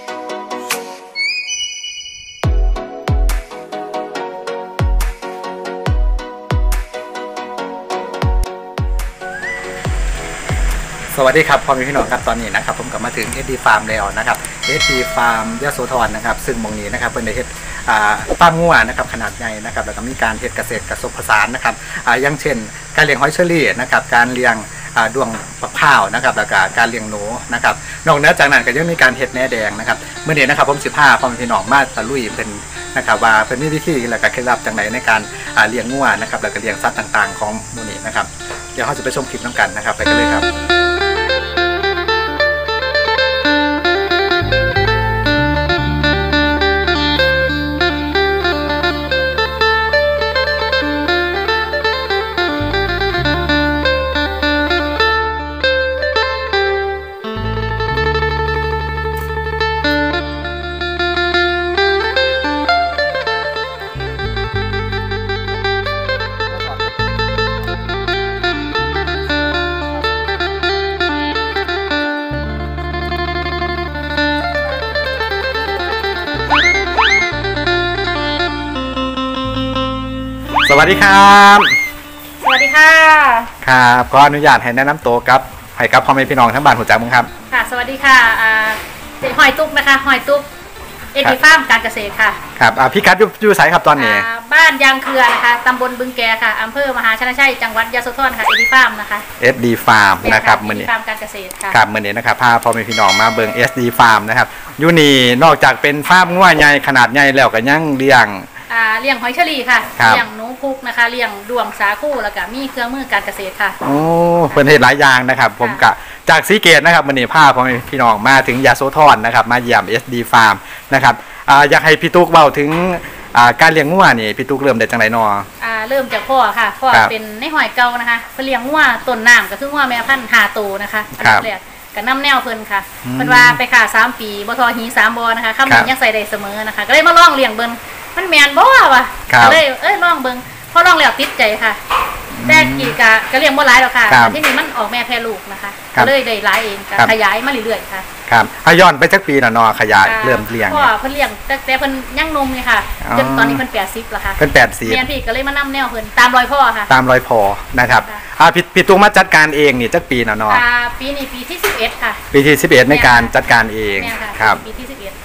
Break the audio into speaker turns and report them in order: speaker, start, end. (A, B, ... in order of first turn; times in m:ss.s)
0:11.1-0:40.5 A
1:14.8-1:16.2 B
1:20.6-1:21.7 A
1:22.4-1:23.5 B
1:23.6-1:27.3 A
1:27.5-1:30.4 B
1:31.1-1:32.4 B
1:32.6-1:34.2 A
1:33.9-1:39.2 B
1:39.4-1:40.9 A
1:40.2-1:41.8 B
1:41.7-1:48.5 A
1:48.7-1:53.8 B
1:50.0-1:50.2 A
1:53.8-2:05.5 A
2:05.6-2:21.8 B
2:11.2-2:11.5 A
2:13.0-2:13.6 A
2:19.3-2:19.6 A
2:22.3-2:23.0 A
2:22.4-2:28.0 B
2:24.1-2:24.4 A
2:28.3-2:30.9 A
2:30.0-2:36.9 B
2:33.0-2:33.6 A
2:34.4-2:35.0 A
2:36.9-2:40.6 A
2:40.5-2:42.2 B
2:42.3-2:44.6 A
2:42.9-2:43.3 B
2:43.9-2:45.2 B